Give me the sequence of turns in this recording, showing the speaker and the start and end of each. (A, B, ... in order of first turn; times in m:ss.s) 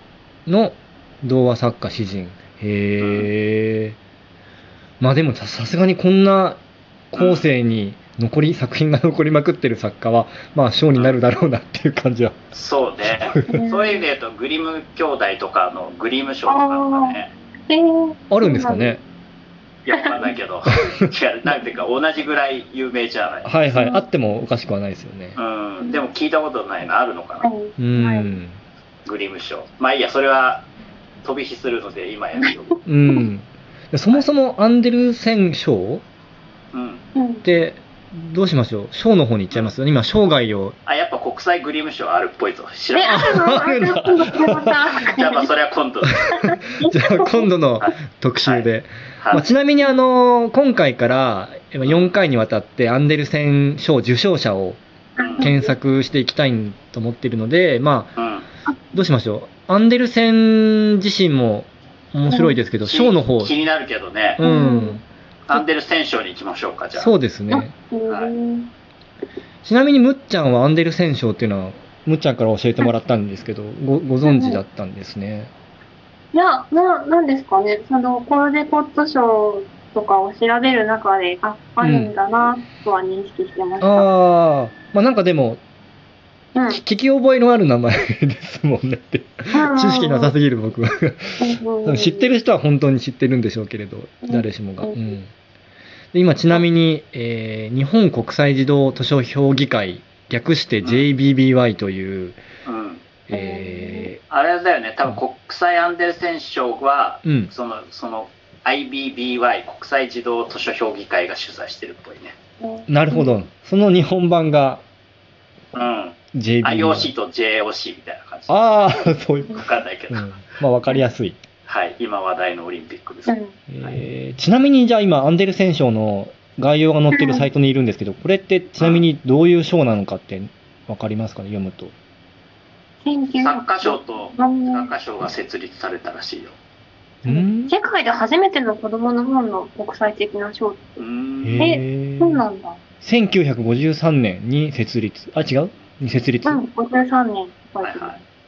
0:00.5-0:04.0 A
0:03.0-0:03.3 B
0:05.0-0:06.6 A
0:07.1-0:12.3 A
0:07.2-0:07.5 B
0:12.5-0:17.3 B
0:13.0-0:13.6 A
0:13.5-0:14.0 C
0:16.5-0:19.0 C
0:18.3-0:19.0 A
0:19.8-0:23.5 B
0:19.9-0:20.3 C
0:23.4-0:25.4 A
0:23.7-0:24.0 C
0:25.4-0:27.5 B
0:25.8-0:26.1 C
0:27.4-0:28.4 C
0:27.8-0:28.6 A
0:29.0-0:30.7 B
0:31.2-0:32.8 B
0:32.8-0:36.0 A
0:36.7-0:37.0 B
0:37.2-0:37.4 C
0:37.4-0:40.8 A
0:40.9-0:43.6 B
0:42.9-0:45.5 C
0:43.0-0:44.9 A
0:45.0-0:46.3 B
0:46.2-0:54.8 A
0:46.5-0:47.5 C
0:48.4-0:49.4 B
0:51.8-0:52.1 B
0:55.2-0:55.7 C
0:55.2-0:55.6 B
0:55.4-0:58.2 A
0:58.2-0:58.5 B
0:58.9-1:03.5 A
1:02.3-1:02.6 C
1:02.8-1:04.4 B
1:04.4-1:05.6 A
1:04.4-1:05.0 C
1:05.5-1:07.1 B
1:07.0-1:07.7 A
1:07.5-1:08.7 C
1:08.1-1:08.3 B
1:09.6-1:15.5 A
1:14.2-1:14.6 C
1:16.3-1:24.1 C
1:21.8-1:22.1 A
1:23.8-1:25.6 A
1:26.6-1:26.8 C
1:26.7-1:35.3 A
1:29.5-1:30.4 C
1:31.4-1:32.3 C
1:34.3-1:35.0 C
1:36.1-1:42.4 A
1:40.8-1:41.1 B
1:42.6-1:43.1 B
1:43.3-1:44.2 A
1:43.3-1:44.1 C
1:44.3-1:52.4 B
1:47.2-1:47.5 A
1:52.6-1:53.3 C
1:52.9-1:54.8 A
1:55.7-1:58.6 B
1:56.3-1:57.1 A
1:58.5-2:01.4 A
1:59.6-2:00.3 B
2:01.7-2:04.0 B
2:03.3-2:03.6 C
2:03.7-2:11.9 A
2:07.1-2:07.5 C
2:08.8-2:09.0 B
2:13.0-2:14.9 C
2:13.4-2:16.6 B
2:17.2-2:17.7 A
2:17.3-2:20.8 C
2:21.0-2:21.8 B
2:21.4-2:22.4 A
2:21.6-2:22.8 C
2:23.0-2:26.6 A
2:26.4-2:28.1 C
2:27.8-2:28.2 B